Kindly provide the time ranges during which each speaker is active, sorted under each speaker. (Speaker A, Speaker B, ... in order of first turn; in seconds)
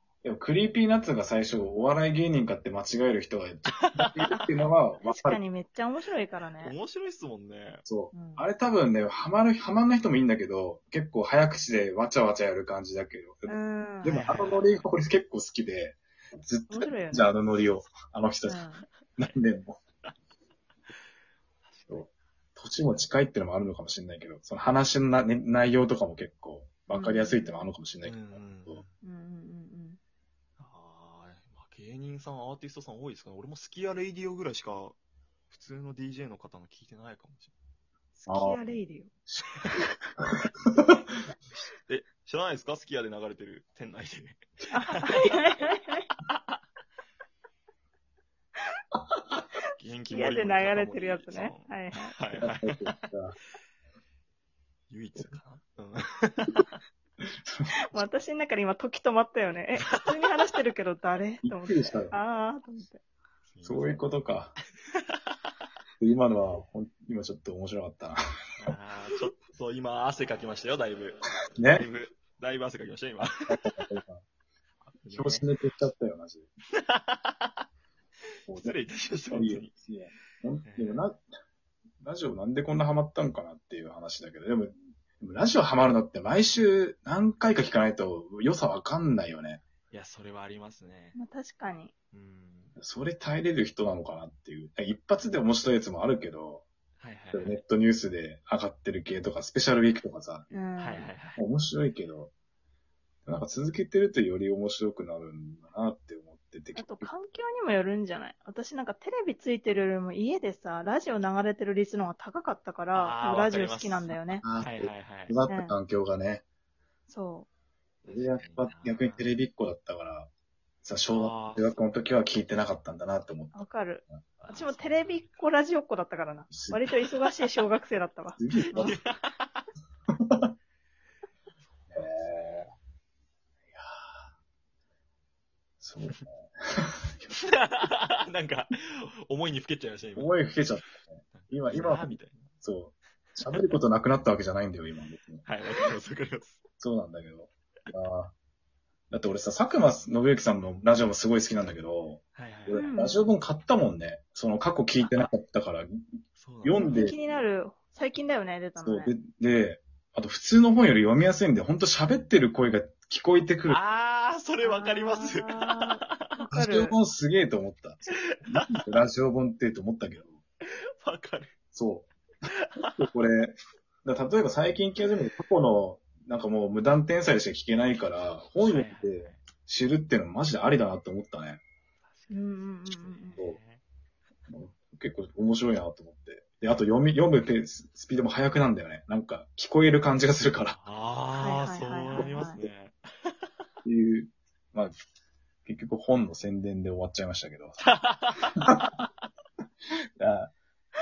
Speaker A: 0.2-5.4, 7.9-18.6, 19.2-19.8, 21.9-28.8, 38.3-38.6, 40.6-40.9, 52.4-53.4, 57.5-58.1, 61.4-62.2, 63.6-64.5, 66.0-68.2, 71.5-71.8, 73.5-74.2, 75.1-76.5, 78.5-78.8, 79.3-81.2, 82.0-89.6, 92.8-96.7, 97.3-100.5, 101.4-102.3, 103.2-107.1, 114.4-116.4, 118.1-120.3, 120.8-123.6, 126.5-126.9, 128.4-129.0, 130.2-130.5, 131.9-132.7, 133.7-134.2, 135.8-137.4, 140.2-145.4, 146.8-148.3, 149.1-156.0, 156.6-157.1, 158.8-163.8, 166.5-170.4, 171.7-172.1, 173.0-181.6, 184.5-190.8, 192.1-192.4, 193.8-194.9, 195.7-197.8, 198.6-198.9, 200.2-200.6
Speaker B: 3.9-4.3, 6.6-7.8, 14.1-14.8, 21.7-22.1, 28.0-28.9, 30.6-35.0, 35.5-37.5, 41.5-45.4, 49.8-52.9, 54.9-56.7, 59.9-60.3, 63.5-64.0, 68.6-73.6, 74.9-75.5, 76.8-77.6, 78.5-79.7, 80.6-81.0, 89.9-91.2, 92.1-92.8, 97.0-97.6, 100.8-101.4, 112.9-115.3, 118.0-119.3, 121.1-121.7, 124.4-125.5, 128.7-129.7, 131.7-132.7, 137.3-140.3, 141.3-142.5, 145.4-146.6, 152.3-152.8, 155.0-155.3, 156.4-157.4, 163.7-166.3, 168.1-168.8, 170.6-171.5, 172.6-172.9, 178.6-179.4, 182.0-183.8, 190.7-193.5, 197.8-199.0
Speaker C: 4.3-6.8, 8.1-8.4, 13.5-14.3, 16.7-17.3, 18.5-18.9, 26.9-27.6, 29.0-30.0, 38.2-39.1, 44.7-46.1, 50.1-52.1, 57.9-63.0, 91.2-91.9, 100.5-101.1, 106.8-114.4, 115.5-115.8, 117.1-117.5, 123.5-129.0, 152.8-153.3, 156.8-159.2, 164.6-167.0, 182.3-183.4, 191.4-192.6